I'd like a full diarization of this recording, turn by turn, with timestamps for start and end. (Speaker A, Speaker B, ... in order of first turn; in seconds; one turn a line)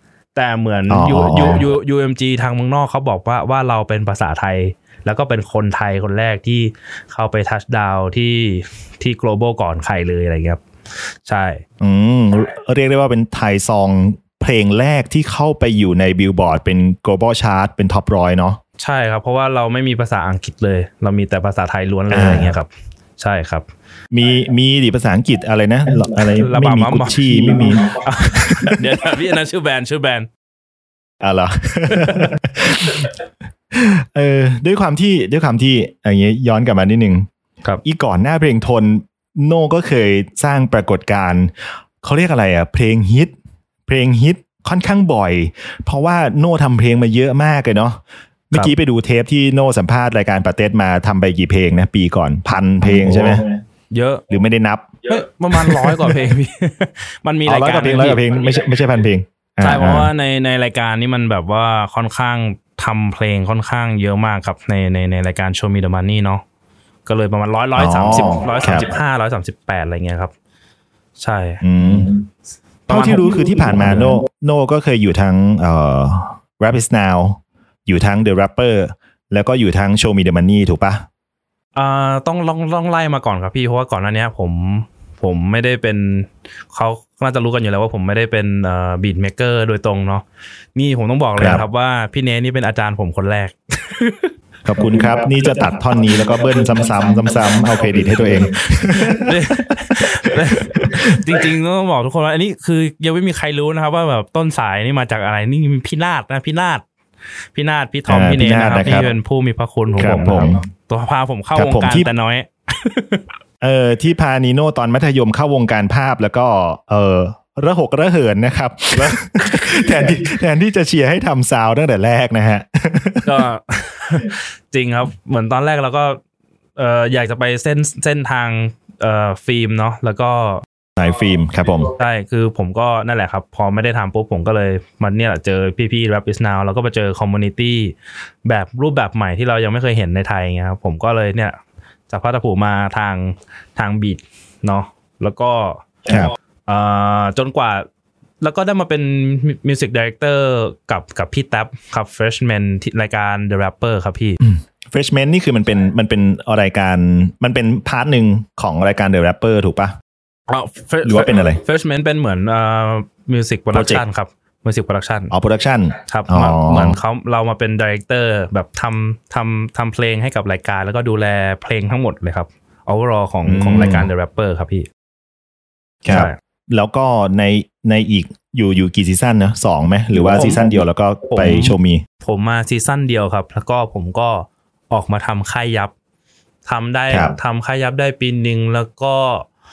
Speaker A: 0.3-10.6
Speaker B: 0.9-1.6
Speaker A: 11.2-11.6
Speaker B: 11.8-18.6
Speaker A: 18.8-23.6
Speaker B: 22.1-22.5
Speaker B: 24.1-28.8
Speaker A: 26.4-30.3
Speaker B: 31.2-33.1
Speaker A: 31.9-32.3
Speaker B: 33.7-37.3
Speaker B: 37.8-43.3
Speaker B: 43.9-48.0
Speaker B: 48.5-53.5
Speaker A: 52.9-54.2
Speaker B: 54.3-54.9
Speaker A: 55.1-58.2
Speaker B: 55.5-56.2
Speaker B: 57.5-60.1
Speaker A: 59.6-66.4
Speaker A: 67.0-70.3
Speaker B: 67.8-68.9
Speaker A: 71.2-71.6
Speaker B: 71.6-72.1
Speaker A: 72.9-74.2
Speaker B: 72.9-81.0
Speaker A: 81.7-90.2
Speaker A: 90.8-94.3
Speaker B: 91.4-91.6
Speaker B: 94.7-99.3
Speaker A: 98.6-106.8
Speaker B: 100.0-101.2
Speaker A: 107.5-113.2
Speaker B: 108.1-109.1
Speaker B: 110.0-110.6
Speaker B: 111.5-112.1
Speaker B: 113.6-123.4
Speaker A: 118.9-119.6
Speaker A: 123.2-126.2
Speaker A: 126.8-130.6
Speaker B: 131.0-131.9
Speaker A: 132.0-141.6
Speaker A: 142.1-147.8
Speaker B: 146.1-146.3
Speaker A: 148.4-154.4
Speaker B: 154.4-159.9
Speaker A: 160.5-165.3
Speaker B: 161.0-161.6
Speaker B: 163.7-164.0
Speaker B: 165.3-167.0
Speaker A: 166.1-174.9
Speaker B: 173.4-174.1
Speaker B: 176.0-182.0
Speaker A: 176.1-176.4
Speaker A: 180.2-180.7
Speaker A: 181.3-185.9
Speaker A: 186.7-189.5
Speaker B: 187.1-187.3